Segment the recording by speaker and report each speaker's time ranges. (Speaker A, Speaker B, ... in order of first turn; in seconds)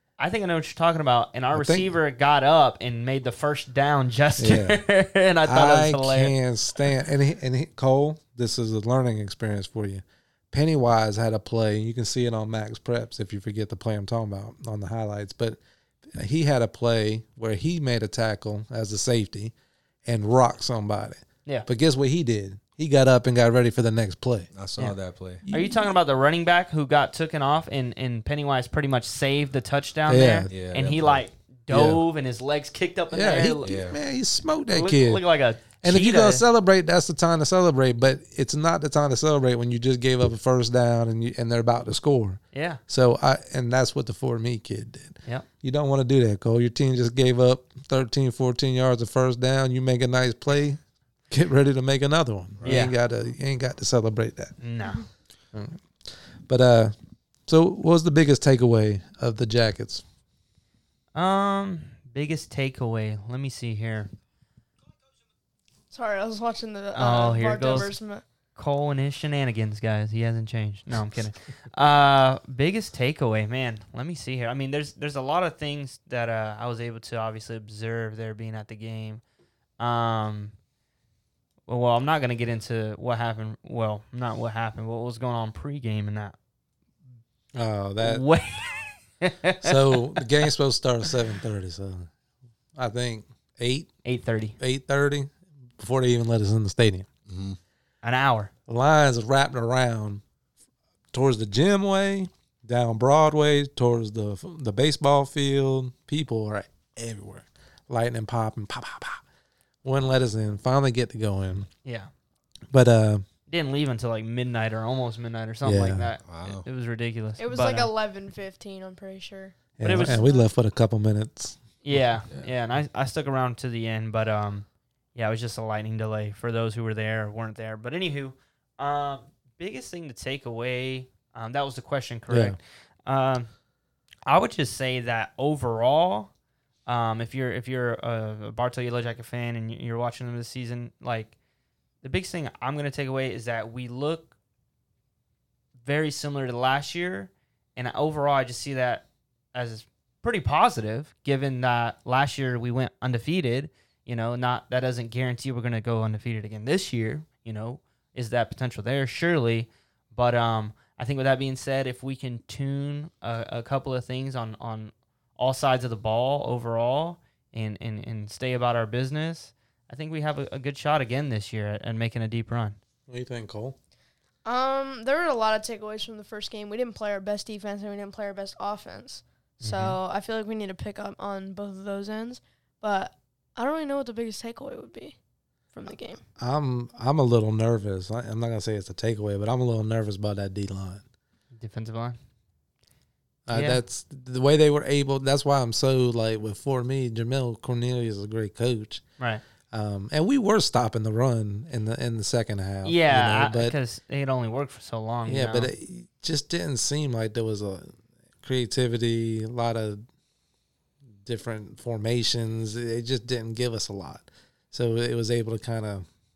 Speaker A: 0.2-6.3, 25.5-33.7, 34.7-36.4, 42.5-42.8, 52.6-52.9, 54.6-55.0, 61.1-64.1, 67.0-67.9, 68.5-79.2, 79.8-80.5, 81.7-86.3, 88.0-90.2, 94.0-94.6, 98.0-98.5, 111.8-112.1, 113.5-117.9, 119.8-120.2, 121.8-133.5, 134.3-136.3, 136.9-141.3, 142.0-144.3, 145.8-172.8, 179.6-180.0, 191.6-192.2, 193.5-193.8, 202.8-205.7
Speaker B: 1.5-1.9, 4.4-4.8, 5.4-15.6, 16.1-19.5, 20.1-24.5, 25.4-25.9, 30.1-30.5, 31.7-32.0, 33.1-35.2, 35.8-50.8, 51.3-54.5, 55.5-55.8, 56.5-56.9, 57.5-60.0, 87.5-88.2, 89.6-92.1, 92.7-93.9, 94.6-97.1, 98.7-100.2, 101.1-109.2, 109.8-111.7, 112.7-113.2, 115.6-116.1, 119.8-121.6, 132.3-132.6, 173.1-173.8, 186.4-191.0, 193.5-199.0, 199.7-203.8, 205.3-210.0, 211.2-216.0
Speaker C: 24.5-25.4, 30.5-31.2, 33.6-34.0, 97.3-97.6, 116.2-116.6
Speaker D: 65.9-68.2, 117.4-120.5, 174.4-185.2, 185.7-186.2